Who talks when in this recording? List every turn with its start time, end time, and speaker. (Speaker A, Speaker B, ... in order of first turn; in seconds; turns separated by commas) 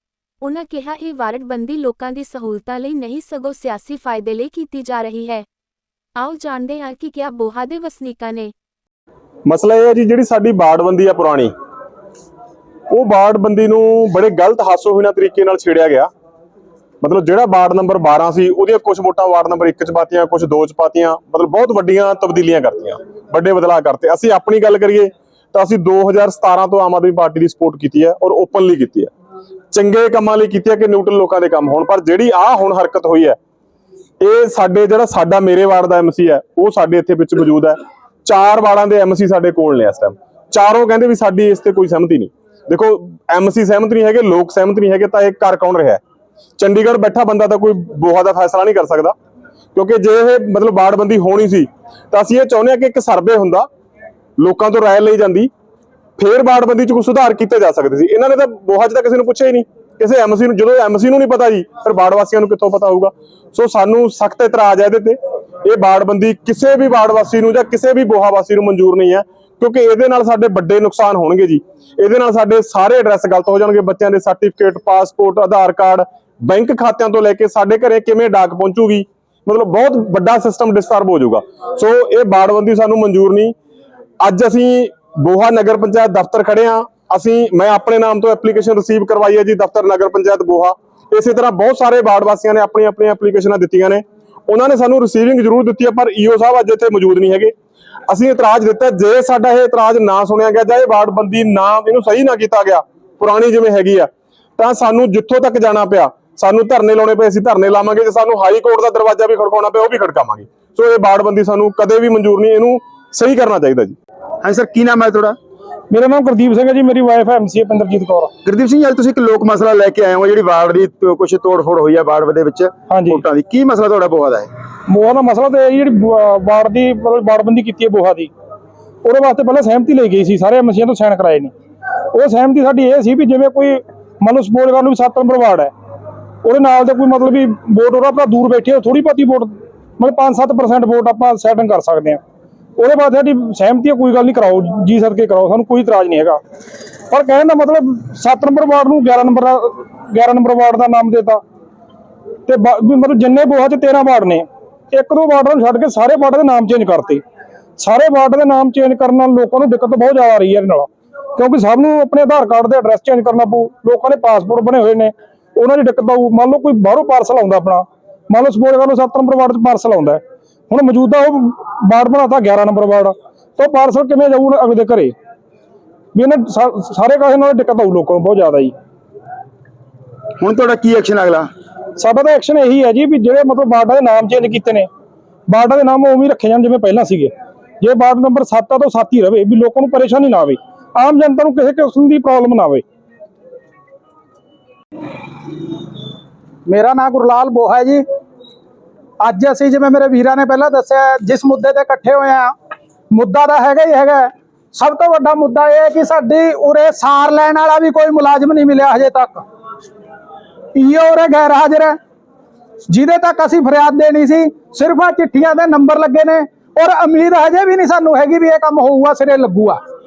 Speaker A: 0.4-5.5, Speaker A: 6.2-8.5, Speaker B: 9.5-11.5, Speaker B: 12.9-16.1, Speaker B: 17.0-29.1, Speaker B: 29.7-33.4, Speaker B: 34.2-46.0, Speaker B: 46.6-49.1, Speaker B: 49.8-53.7, Speaker B: 54.4-55.5, Speaker B: 56.2-83.5, Speaker B: 84.2-97.5, Speaker B: 98.1-114.0, Speaker C: 114.4-115.4, Speaker D: 115.9-118.3, Speaker C: 118.4-124.5, Speaker D: 122.9-123.2, Speaker D: 124.9-128.3, Speaker D: 129.0-131.5, Speaker D: 132.1-135.7, Speaker D: 136.4-142.2, Speaker D: 142.8-146.4, Speaker D: 147.1-151.4, Speaker D: 152.5-157.2, Speaker D: 157.8-175.1, Speaker D: 176.2-178.8, Speaker C: 180.4-181.5, Speaker D: 182.0-184.9, Speaker D: 185.5-192.8, Speaker E: 196.7-198.0, Speaker E: 199.2-202.5, Speaker E: 203.1-209.4, Speaker E: 210.8-212.0, Speaker E: 212.9-219.8